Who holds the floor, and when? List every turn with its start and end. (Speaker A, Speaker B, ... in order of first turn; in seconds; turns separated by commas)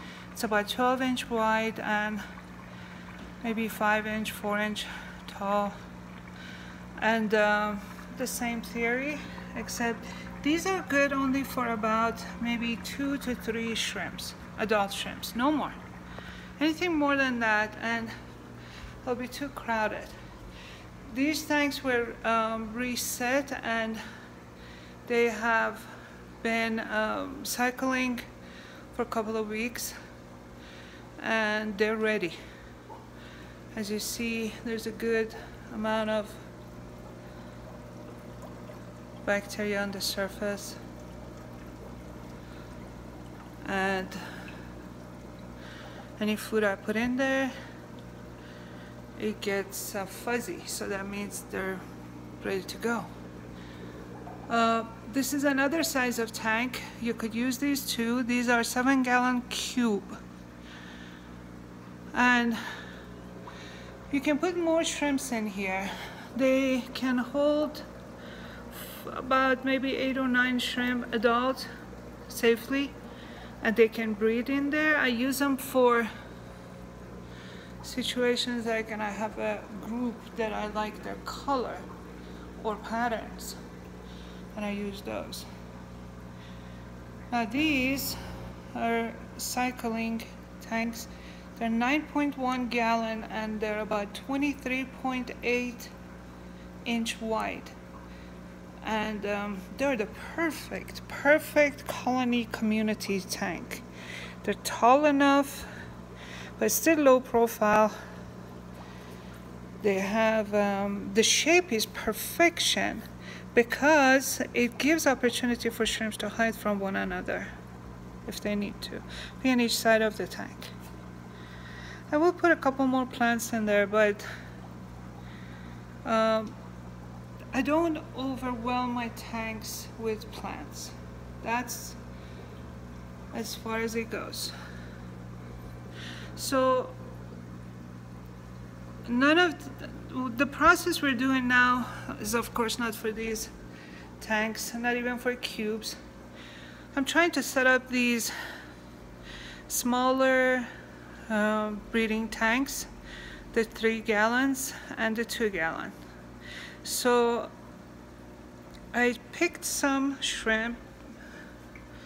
Speaker A: 0.3-2.2, Speaker A: 3.4-5.8, Speaker A: 7.0-15.8, Speaker A: 16.6-18.1, Speaker A: 19.0-20.1, Speaker A: 21.1-24.0, Speaker A: 25.1-28.2, Speaker A: 28.9-30.0, Speaker A: 31.2-32.4, Speaker A: 33.7-36.5, Speaker A: 39.2-40.8, Speaker A: 43.6-44.3, Speaker A: 46.2-47.5, Speaker A: 49.2-51.8, Speaker A: 52.4-53.1, Speaker A: 54.5-60.2, Speaker A: 62.1-62.6, Speaker A: 64.1-67.8, Speaker A: 68.7-71.7, Speaker A: 72.3-73.0, Speaker A: 73.6-76.1, Speaker A: 77.8-81.9, Speaker A: 82.6-83.6, Speaker A: 84.5-85.5, Speaker A: 87.3-88.2, Speaker A: 88.7-95.9, Speaker A: 96.8-97.8, Speaker A: 98.8-103.8, Speaker A: 104.4-105.7, Speaker A: 106.6-107.9, Speaker A: 109.8-117.5, Speaker A: 118.2-120.7, Speaker A: 122.1-124.3, Speaker A: 126.0-126.5, Speaker A: 127.5-132.0, Speaker A: 133.3-134.6, Speaker A: 136.4-137.0, Speaker A: 139.1-143.5, Speaker A: 144.2-146.0, Speaker A: 146.9-148.3, Speaker A: 149.7-150.7, Speaker A: 151.3-152.9, Speaker A: 153.5-156.0, Speaker A: 156.8-157.5, Speaker A: 158.9-160.8